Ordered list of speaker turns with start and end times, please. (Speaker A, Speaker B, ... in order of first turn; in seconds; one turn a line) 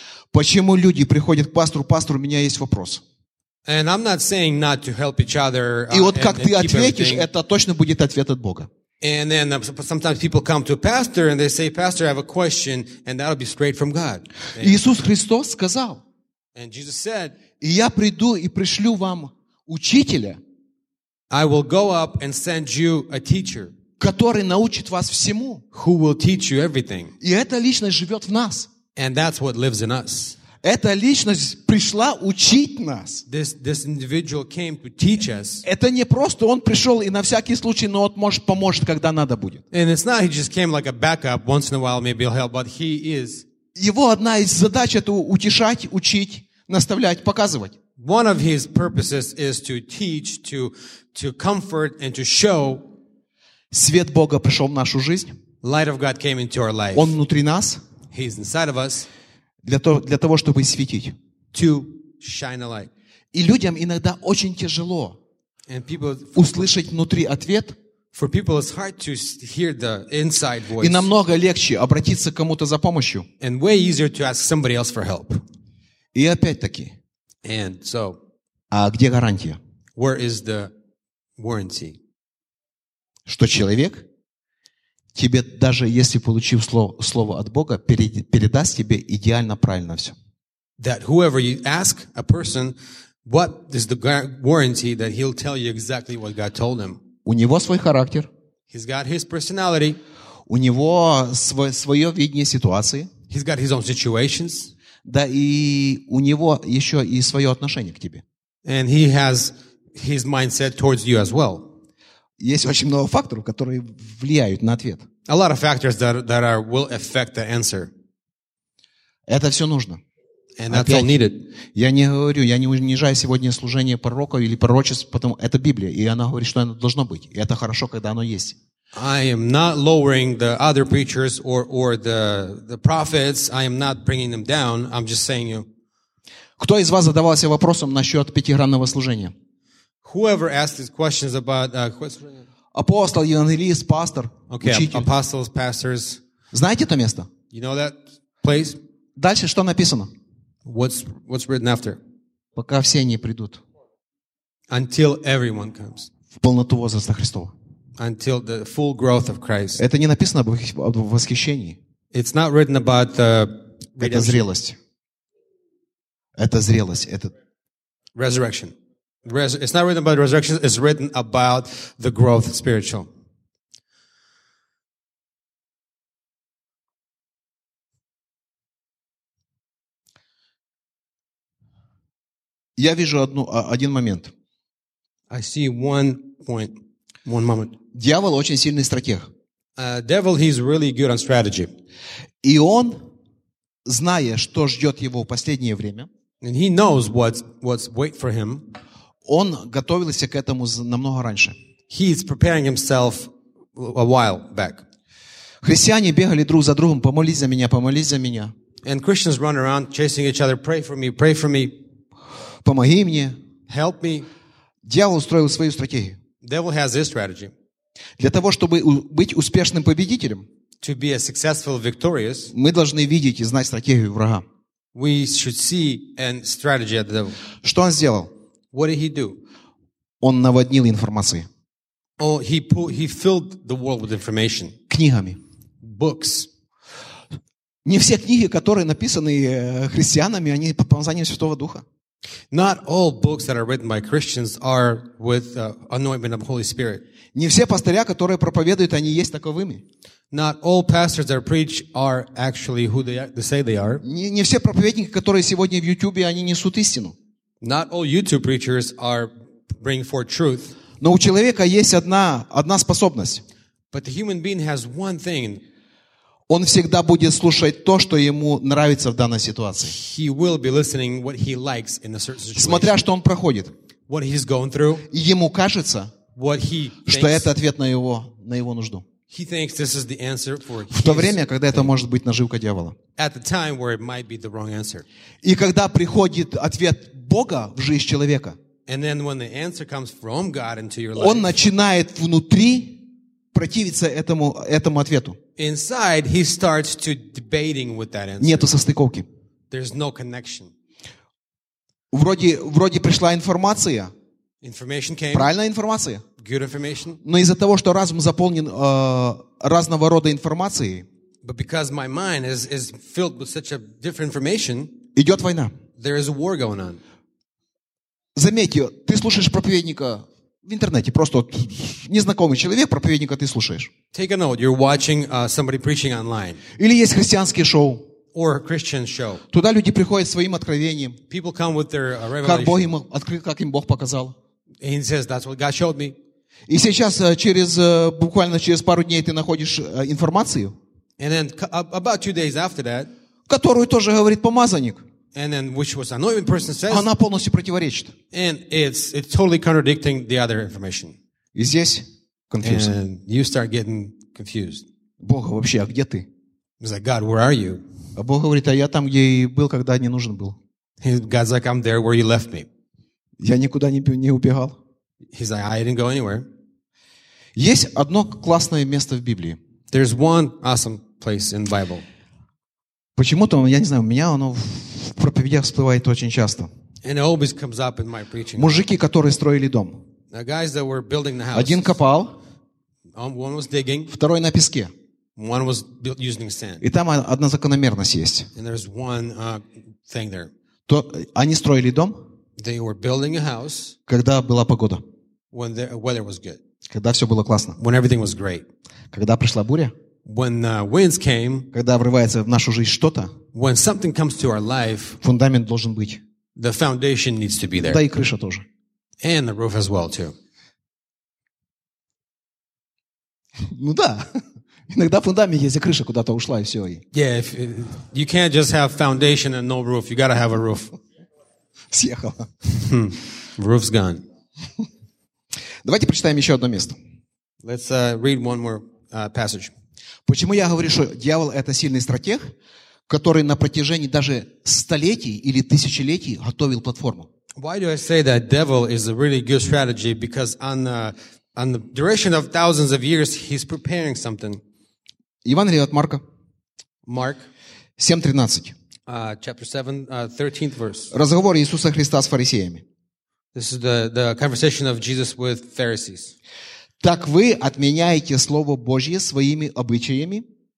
Speaker A: 0.3-3.0
Speaker B: 3.6-7.3
Speaker A: 5.9-8.7
Speaker B: 9.0-14.8
Speaker A: 14.6-16.0
Speaker B: 16.6-17.4
Speaker A: 17.6-20.4
Speaker B: 21.3-23.7
Speaker A: 24.0-25.6
Speaker B: 25.7-27.1
Speaker A: 27.2-28.7
Speaker B: 28.9-30.4
Speaker A: 30.6-33.2
Speaker B: 33.3-35.6
Speaker A: 35.6-39.6
Speaker B: 39.7-43.4
Speaker A: 43.7-47.7
Speaker B: 48.0-52.9
Speaker A: 53.7-55.3
Speaker B: 55.6-57.1
Speaker A: 56.9-57.8
Speaker B: 58.1-59.1
Speaker A: 59.6-61.1
Speaker B: 61.5-62.9
Speaker A: 63.3-65.2
Speaker B: 65.7-66.7
Speaker A: 66.4-67.8
Speaker B: 68.1-71.1
Speaker A: 70.8-73.3
Speaker B: 73.4-75.4
Speaker A: 76.1-77.0
Speaker B: 77.4-78.2
Speaker A: 78.7-79.6
Speaker B: 80.0-80.7
Speaker B: 81.4-82.0
Speaker A: 83.2-84.0
Speaker A: 85.1-90.1
Speaker B: 90.8-97.0
Speaker A: 97.2-98.3
Speaker B: 98.7-100.0
Speaker A: 100.5-103.1
Speaker B: 103.3-104.7
Speaker A: 105.0-108.2
Speaker B: 108.6-111.7
Speaker A: 112.4-115.0
Speaker B: 115.3-117.9
Speaker A: 119.3-120.0
Speaker B: 120.6-121.4
Speaker A: 120.7-121.2
Speaker A: 121.7-128.6
Speaker B: 128.9-135.7
Speaker A: 136.6-139.3
Speaker B: 140.0-142.4
Speaker A: 142.7-145.1
Speaker B: 144.5-146.2
Speaker A: 146.5-147.3
Speaker B: 147.5-148.8
Speaker A: 149.2-150.1
Speaker B: 150.6-152.0
Speaker A: 152.6-153.6
Speaker B: 154.7-156.1
Speaker A: 156.3-157.5
Speaker B: 158.0-159.8
Speaker A: 159.8-161.8
Speaker B: 162.1-164.5
Speaker A: 164.0-164.8
Speaker A: 166.4-167.3
Speaker B: 168.2-173.1
Speaker A: 182.8-184.3
Speaker B: 185.3-187.7
Speaker A: 187.9-189.2
Speaker B: 189.8-191.7
Speaker A: 192.4-193.0
Speaker A: 193.9-196.1
Speaker B: 196.4-198.7
Speaker A: 199.2-201.6
Speaker B: 201.9-204.8
Speaker A: 205.6-208.5
Speaker B: 208.8-211.8
Speaker A: 212.6-213.4
Speaker B: 213.7-214.3
Speaker A: 214.8-216.2
Speaker B: 216.4-217.5
Speaker A: 218.2-220.4
Speaker B: 220.8-222.5
Speaker A: 222.5-224.4
Speaker B: 224.9-227.4
Speaker A: 227.6-228.3
Speaker B: 228.7-229.4
Speaker A: 230.2-231.5
Speaker B: 232.2-234.8
Speaker A: 234.9-235.4
Speaker B: 235.8-236.5
Speaker A: 237.8-241.8
Speaker B: 242.5-247.0
Speaker A: 247.3-249.8
Speaker B: 250.3-254.0
Speaker A: 254.0-257.1
Speaker B: 257.6-260.8
Speaker A: 261.0-263.4
Speaker B: 263.9-265.6
Speaker A: 266.5-269.9
Speaker B: 269.8-273.0
Speaker A: 272.6-273.7
Speaker B: 274.1-275.1
Speaker A: 275.1-276.1
Speaker B: 276.4-277.5
Speaker A: 277.1-279.1
Speaker B: 279.3-281.9
Speaker A: 280.9-282.9
Speaker B: 283.2-285.1
Speaker A: 285.4-288.6
Speaker B: 288.9-291.6
Speaker A: 291.1-295.4
Speaker B: 295.6-298.7
Speaker A: 298.4-299.2
Speaker B: 299.7-300.7
Speaker A: 302.1-304.1
Speaker B: 304.6-305.5
Speaker A: 305.3-306.2
Speaker B: 306.4-307.2
Speaker A: 307.2-311.1
Speaker B: 311.4-314.9
Speaker A: 315.1-315.7
Speaker B: 316.0-317.0
Speaker A: 318.4-323.9
Speaker B: 324.1-326.6
Speaker A: 326.8-328.0
Speaker B: 328.3-329.4
Speaker A: 329.5-331.2
Speaker B: 331.3-332.9
Speaker A: 332.4-334.4
Speaker B: 334.8-336.1
Speaker A: 336.7-340.8
Speaker B: 341.2-343.1
Speaker A: 343.5-345.0
Speaker B: 345.3-347.1
Speaker A: 346.9-348.1
Speaker B: 348.3-351.1
Speaker A: 351.6-352.9
Speaker B: 352.6-354.9
Speaker A: 355.2-356.3
Speaker B: 356.8-357.8
Speaker A: 358.1-360.6
Speaker B: 361.0-362.7
Speaker A: 363.4-364.8
Speaker B: 365.3-366.5
Speaker A: 367.6-369.6
Speaker B: 369.9-372.0
Speaker A: 373.2-376.7
Speaker B: 377.0-378.9
Speaker A: 378.6-380.0
Speaker B: 380.3-381.9
Speaker A: 381.5-382.4
Speaker B: 383.1-384.1
Speaker A: 384.1-384.9
Speaker B: 385.4-386.8
Speaker A: 386.8-388.5
Speaker B: 388.6-390.5
Speaker A: 390.9-392.2
Speaker B: 392.6-393.9
Speaker A: 394.1-395.0
Speaker B: 395.5-396.6
Speaker A: 396.9-397.8
Speaker B: 397.8-398.6
Speaker A: 399.1-399.9
Speaker B: 400.2-401.7
Speaker A: 401.7-403.3
Speaker B: 403.5-405.2
Speaker A: 405.2-406.2
Speaker B: 406.6-408.0
Speaker A: 407.8-408.6
Speaker B: 409.2-410.4
Speaker A: 413.6-417.0
Speaker B: 417.1-421.0
Speaker A: 421.9-422.5
Speaker B: 422.7-424.2
Speaker A: 425.8-426.9
Speaker B: 427.6-429.7
Speaker A: 430.2-432.4
Speaker A: 433.1-437.3
Speaker B: 437.6-444.6
Speaker A: 445.4-446.2
Speaker B: 447.1-447.5
Speaker A: 448.0-448.7
Speaker B: 449.1-451.1
Speaker A: 451.1-452.8
Speaker B: 453.5-456.4
Speaker A: 457.0-460.4